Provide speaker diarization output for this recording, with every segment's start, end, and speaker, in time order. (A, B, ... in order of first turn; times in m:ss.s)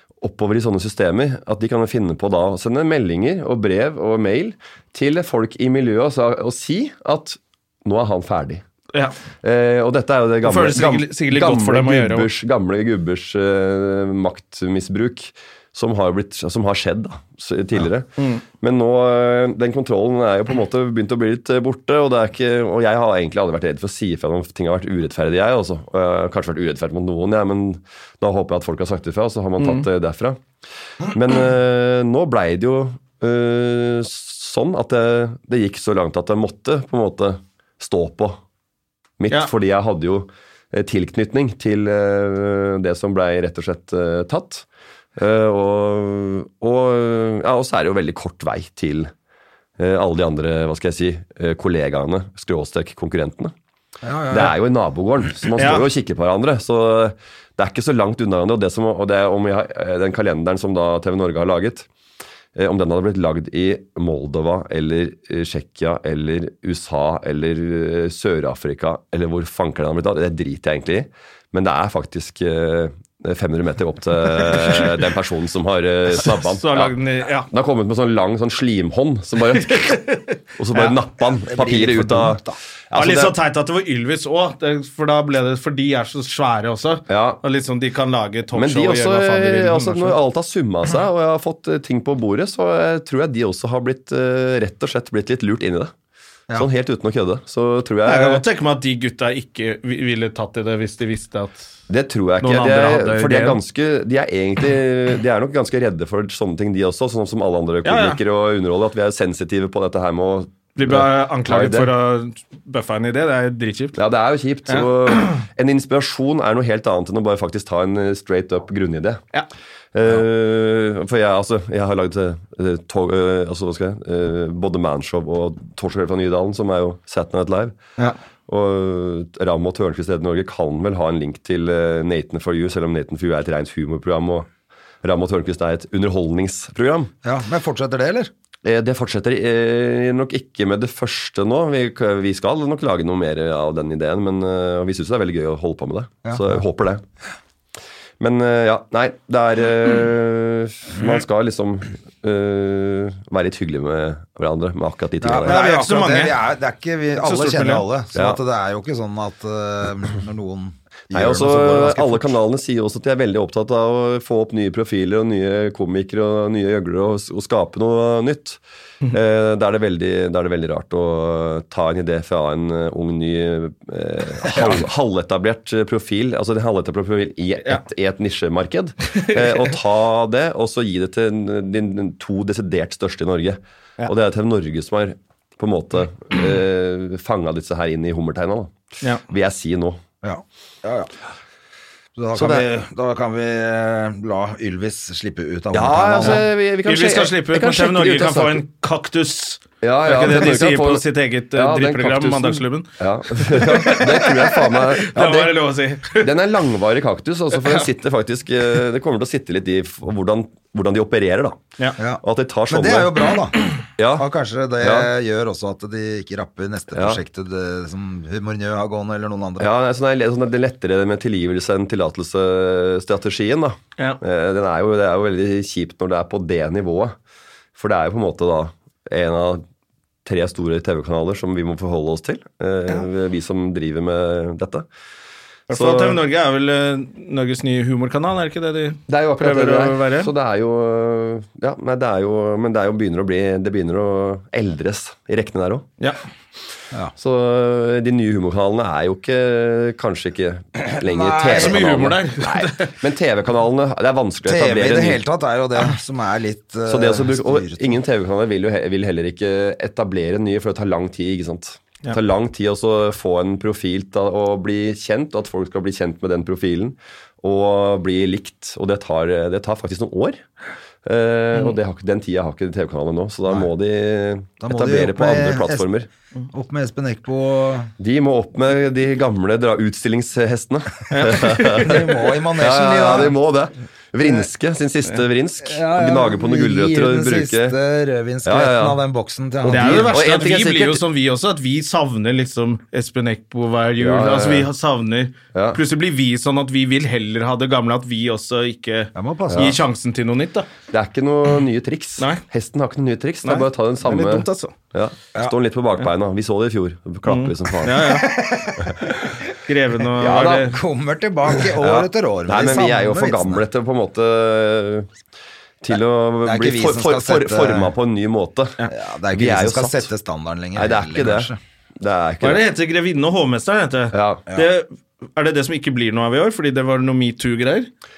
0:00.2-0:08.6 A
0:09.4-0:18.1 A
0:10.4-0:12.3 B
0:18.2-0:18.4 B
0:18.6-0:30.4 A
0:29.6-0:29.8 B
0:31.0-0:38.4 A
0:39.2-0:49.1 A
0:49.8-0:53.5 A
0:54.0-0:54.5 C
0:54.3-1:01.9 A
0:55.6-0:55.8 B
1:02.5-1:16.9 A
1:16.3-1:17.5 B
1:17.5-1:20.0 A
1:19.5-1:20.3 B
1:20.6-1:23.3 A
1:21.4-1:22.6 C
1:22.9-1:30.2 B
1:27.1-1:27.4 A
1:28.5-1:35.9 A
1:36.5-1:38.4 A
1:38.0-1:41.6 B
1:41.9-1:51.9 A
1:42.4-1:43.6 B
1:47.8-1:48.2 B
1:50.8-1:54.0 B
1:53.9-1:59.2 A
1:54.7-1:55.4 B
1:59.9-2:07.8 A
2:08.5-2:14.5 A
2:15.0-2:17.1 A
2:17.2-2:18.3 C
2:18.6-2:27.0 A
2:26.2-2:26.6 C
2:28.2-2:35.6 A
2:35.2-2:42.3 C
2:35.4-2:36.4 B
2:37.2-2:37.8 B
2:38.1-2:38.4 A
2:41.1-3:08.7 A
2:59.2-2:59.6 B
3:09.3-3:10.0 A
3:10.2-3:11.1 C
3:12.2-3:16.4 C
3:12.3-3:12.6 A
3:15.7-3:18.6 A
3:16.2-3:26.3 B
3:19.8-3:25.6 A
3:26.1-3:31.6 A
3:27.5-3:27.8 B
3:32.0-3:33.6 C
3:32.2-3:33.2 A
3:34.0-3:34.3 A
3:34.1-3:39.7 C
3:34.8-3:35.1 A
3:36.9-3:37.2 A
3:39.6-3:47.2 A
3:47.8-3:49.6 A
3:50.2-3:54.8 A
3:55.7-4:00.3 B
3:55.7-3:56.2 A
3:59.1-4:05.9 A
4:07.2-4:15.2 A
4:10.8-4:11.8 C
4:11.5-4:12.9 B
4:14.4-4:18.0 C
4:16.8-4:30.4 A
4:31.0-4:36.1 A
4:34.6-4:35.9 C
4:36.5-4:37.9 C
4:38.0-4:47.8 A
4:41.1-4:42.1 B
4:41.7-4:43.3 C
4:45.6-4:50.2 C
4:48.4-4:49.0 A
4:49.6-4:51.0 A
4:49.6-5:00.7 B
4:54.0-4:54.7 A
4:55.5-4:55.8 A
4:59.1-4:59.8 C
4:59.5-4:59.8 A
5:00.9-5:08.1 A
5:03.4-5:04.7 B
5:07.2-5:08.3 B
5:07.9-5:09.0 C
5:09.6-5:10.8 B
5:10.2-5:10.7 A
5:10.6-5:13.6 C
5:11.7-5:15.1 A
5:15.8-5:20.1 A
5:16.4-5:17.9 C
5:18.9-5:21.6 C
5:20.7-5:22.6 A
5:22.4-5:27.9 B
5:24.1-5:24.4 A